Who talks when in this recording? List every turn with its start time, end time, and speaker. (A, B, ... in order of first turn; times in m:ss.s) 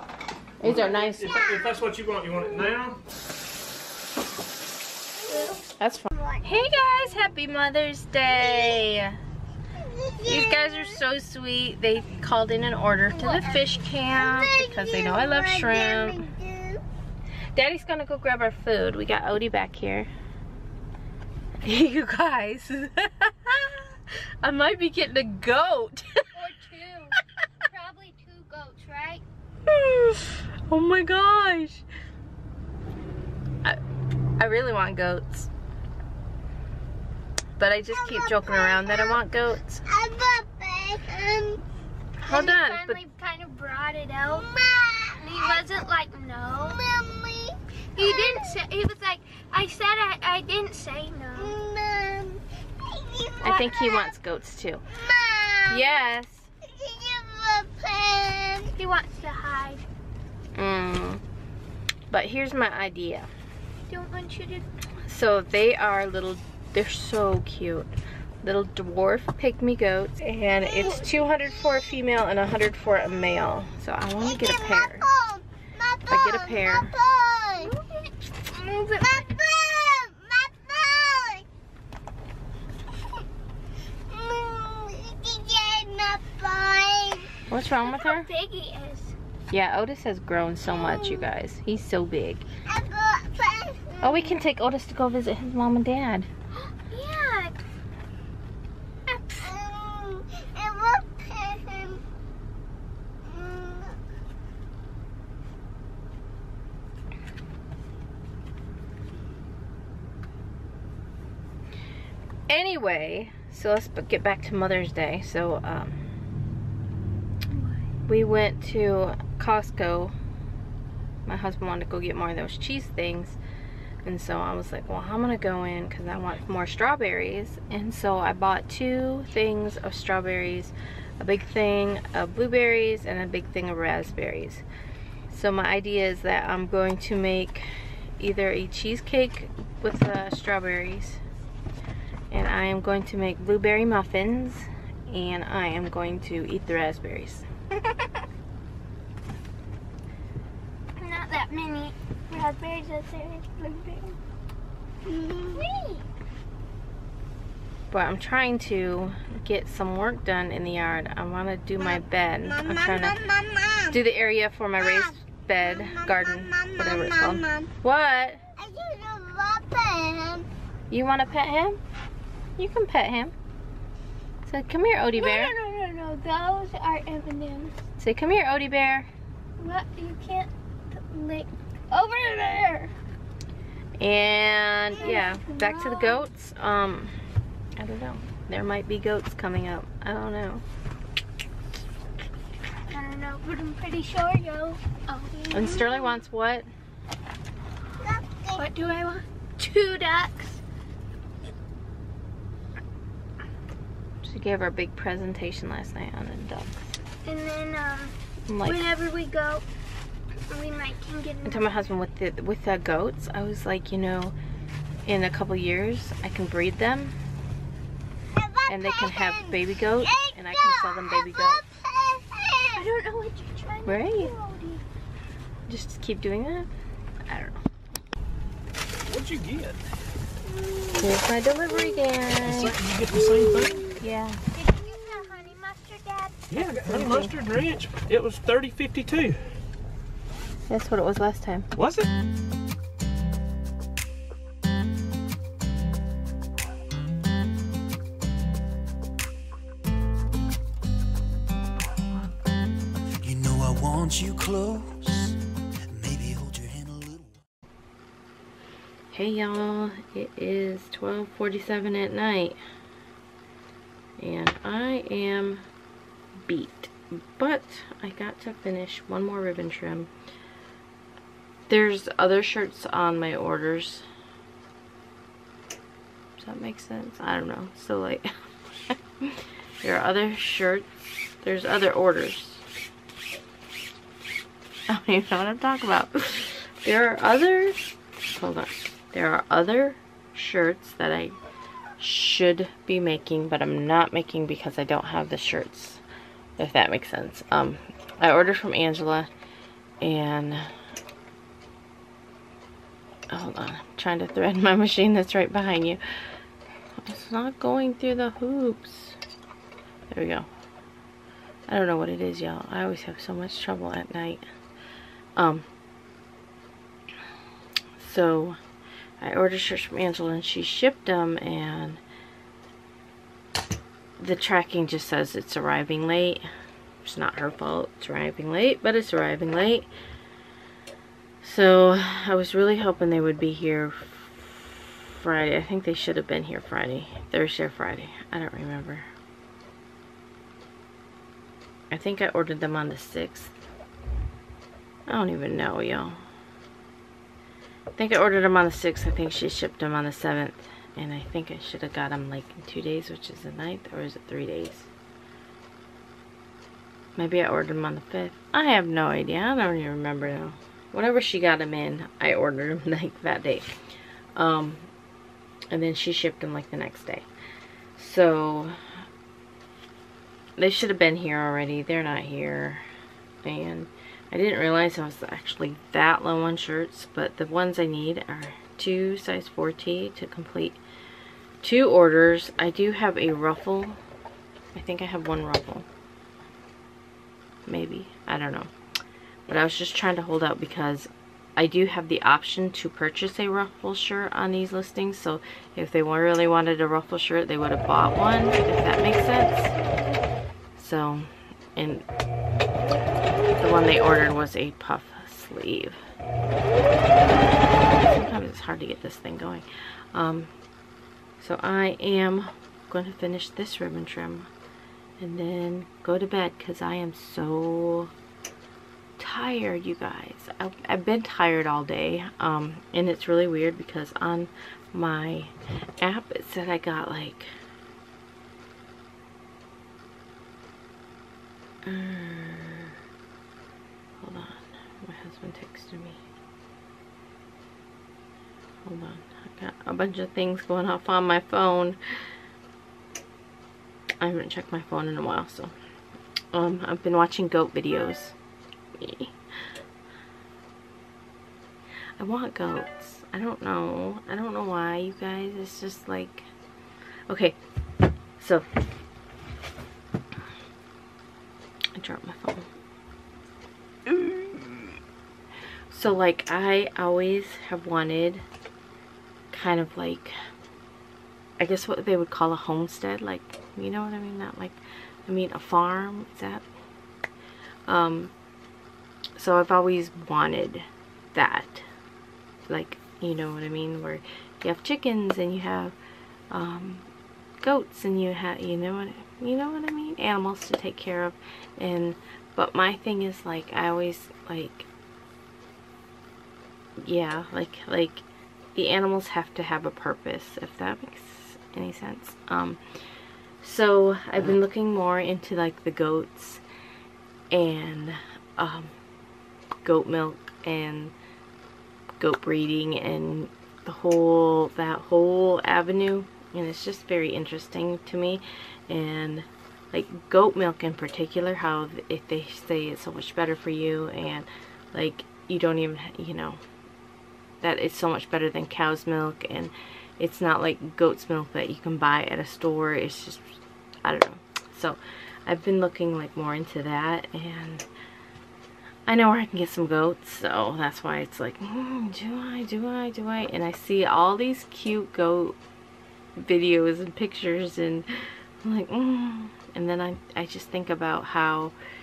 0:00.6-0:01.4 A
0:00.6-0:03.0 B
0:01.3-0:01.8 C
0:05.3-0:05.6 C
0:05.3-0:05.6 D
0:05.8-0:09.2 A
0:06.1-0:07.1 C
0:08.3-0:08.8 C
0:09.8-0:11.0 C
0:10.2-0:16.2 A
0:13.2-0:16.8 C
0:17.5-0:20.1 A
0:21.6-0:26.2 A
0:26.3-0:29.2 D
0:29.7-0:31.8 A
0:34.4-0:35.5 A
0:37.6-0:39.8 A
0:37.9-0:39.2 C
0:39.8-0:41.6 C
0:42.2-0:43.0 A
0:42.2-0:44.5 D
0:44.2-0:45.9 C
0:45.1-0:46.8 D
0:46.5-0:48.6 C
0:48.0-0:51.6 D
0:51.4-0:54.1 C
0:53.4-0:54.8 A
0:54.9-0:55.9 C
0:55.7-0:56.5 A
0:56.6-0:58.7 C
0:58.8-0:59.8 D
1:00.6-1:01.2 A
1:02.1-1:03.3 A
1:03.9-1:04.7 D
1:05.0-1:07.9 A
1:08.4-1:15.1 A
1:10.8-1:11.6 C
1:14.2-1:17.7 C
1:16.1-1:16.9 A
1:17.6-1:19.3 D
1:18.9-1:21.4 C
1:24.1-1:27.3 C
1:27.5-1:28.3 A
1:27.8-1:29.1 D
1:29.5-1:32.4 A
1:30.7-1:31.0 C
1:32.7-1:34.4 C
1:34.0-1:36.3 A
1:36.6-1:37.6 D
1:39.1-1:39.5 D
1:39.4-1:42.0 C
1:43.2-1:44.0 C
1:52.5-1:56.0 A
1:57.5-1:57.8 D
1:58.1-2:00.1 A
2:01.2-2:03.4 A
2:04.0-2:14.6 A
2:15.3-2:21.2 A
2:22.3-2:27.4 A
2:31.0-2:34.2 D
2:35.0-2:35.6 C
2:35.5-2:36.0 D
2:37.9-2:43.2 A
2:42.5-2:44.0 C
2:43.9-2:48.4 A
2:44.8-2:47.7 C
2:48.6-2:50.5 C
2:50.9-2:51.8 A
2:52.6-2:53.3 A
2:54.5-2:55.5 A
2:55.2-2:57.8 D
2:58.0-2:59.1 A
2:59.6-3:02.9 D
3:04.0-3:07.1 A
3:04.9-3:06.2 D
3:07.8-3:10.6 A
3:12.9-3:16.2 D
3:15.5-3:16.7 A
3:18.0-3:18.6 C
3:18.5-3:20.6 D
3:24.2-3:27.0 A
3:27.2-3:29.6 D
3:28.5-3:28.9 A
3:30.5-3:31.9 D
3:31.4-3:34.3 A
3:35.0-3:37.1 A
3:38.3-3:42.8 C
3:38.7-3:41.6 A
3:42.7-3:44.8 D
3:43.8-3:44.3 A
3:45.7-3:46.7 A
3:47.3-3:47.6 A
3:49.0-3:49.8 B
3:50.5-3:51.0 D
3:51.0-3:52.8 A
3:52.4-3:53.9 B
3:52.7-3:53.9 D
3:54.0-3:54.4 A
3:54.5-3:56.7 D
3:56.5-3:59.4 B
3:56.8-3:57.3 A
4:00.7-4:01.7 A
4:01.7-4:02.1 B
4:13.2-4:15.4 E
4:15.9-4:17.4 E
4:19.1-4:22.6 A
4:24.2-4:25.6 A
4:26.4-4:30.1 A
4:31.7-4:34.0 A
4:36.4-4:38.3 A
4:38.9-4:40.9 A
4:41.4-4:42.6 A
4:44.9-4:51.4 A
4:52.0-4:56.0 A
4:56.6-4:59.3 A
5:00.0-5:00.7 A
5:03.3-5:06.0 A
5:07.0-5:09.2 A
5:10.1-5:10.5 A
5:11.7-5:14.4 A
5:15.4-5:15.6 A
5:18.0-5:18.6 A
5:19.2-5:22.0 A
5:24.2-5:26.4 A
5:27.0-5:29.9 A
5:31.4-5:39.1 A
5:41.9-5:43.5 A
5:45.1-5:46.2 A
5:47.9-5:54.9 A
5:57.2-6:03.7 A
6:04.4-6:04.9 A
6:05.7-6:07.3 A
6:08.0-6:08.8 A
6:10.6-6:12.8 A
6:13.4-6:20.8 A
6:21.6-6:24.0 A
6:24.7-6:25.8 A
6:27.6-6:28.7 A
6:29.5-6:39.7 A
6:40.7-6:42.0 A
6:43.6-6:46.0 A
6:47.9-6:50.5 A
6:51.4-6:54.5 A
6:55.2-6:58.1 A
6:59.2-7:07.5 A
7:11.8-7:12.9 A
7:14.2-7:16.2 A
7:18.8-7:22.0 A
7:24.2-7:25.7 A
7:26.5-7:28.3 A
7:29.0-7:29.3 A
7:32.2-7:36.5 A
7:37.3-7:37.6 A
7:38.4-7:38.7 A
7:42.0-7:42.7 A
7:44.1-7:44.8 A
7:45.9-7:48.4 A
7:49.5-7:50.3 A
7:51.6-7:56.7 A
7:57.8-7:58.3 A
7:59.4-8:01.9 A
8:02.7-8:05.9 A
8:06.5-8:07.1 A
8:07.6-8:14.9 A
8:17.0-8:22.8 A
8:23.6-8:26.6 A
8:27.5-8:28.9 A
8:29.8-8:31.1 A
8:32.2-8:46.6 A
8:47.6-8:57.8 A
8:59.0-9:05.6 A
9:06.4-9:08.1 A
9:08.6-9:11.7 A